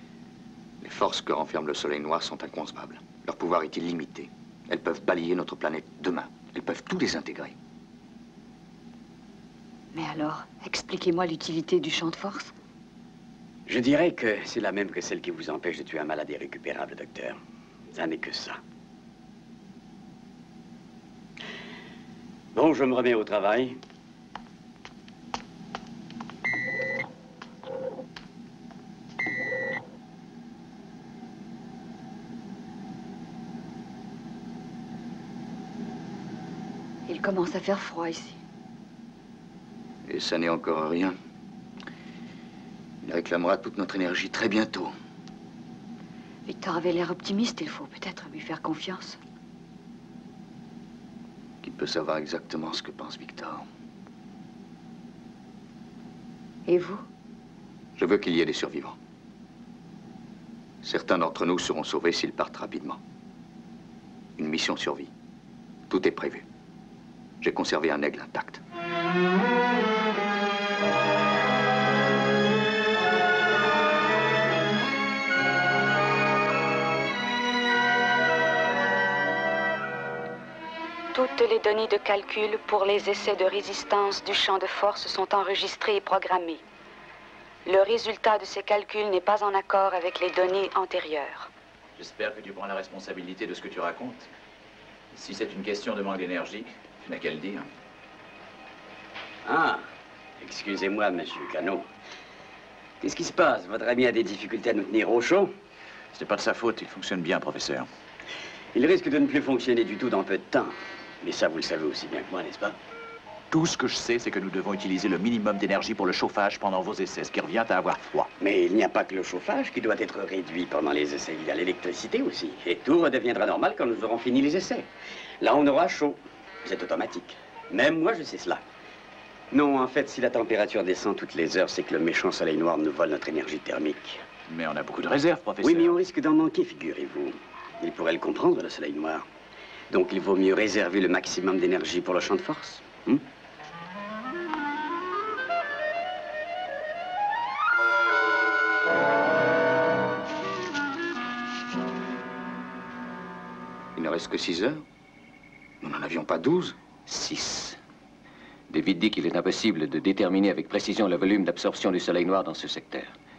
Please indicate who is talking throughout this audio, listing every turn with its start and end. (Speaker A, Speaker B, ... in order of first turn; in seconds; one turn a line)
Speaker A: 0.8-7.5
Speaker B: 9.9-12.5
Speaker C: 13.7-17.4
Speaker C: 17.9-18.6
Speaker C: 22.5-23.8
Speaker B: 37.0-38.4
Speaker A: 40.0-41.2
Speaker A: 43.0-44.9
Speaker B: 46.5-49.2
Speaker A: 51.6-53.7
Speaker B: 56.6-57.0
Speaker A: 58.0-59.0
Speaker A: 60.8-63.0
Speaker A: 64.4-65.1
Speaker A: 65.9-66.5
Speaker A: 67.4-68.6
Speaker D: 81.1-86.6
Speaker D: 87.7-91.5
Speaker E: 92.0-94.3
Speaker E: 95.1-97.7
Speaker C: 99.4-99.8
Speaker C: 100.4-101.9
Speaker C: 103.0-105.5
Speaker E: 106.1-107.9
Speaker C: 108.7-112.8
Speaker E: 113.5-118.3
Speaker C: 118.4-128.6
Speaker C: 129.5-134.2
Speaker E: 134.5-136.0
Speaker C: 135.6-139.2
Speaker C: 139.9-143.2
Speaker A: 153.9-154.8
Speaker A: 155.8-156.8
Speaker F: 157.1-157.8
Speaker F: 158.7-163.1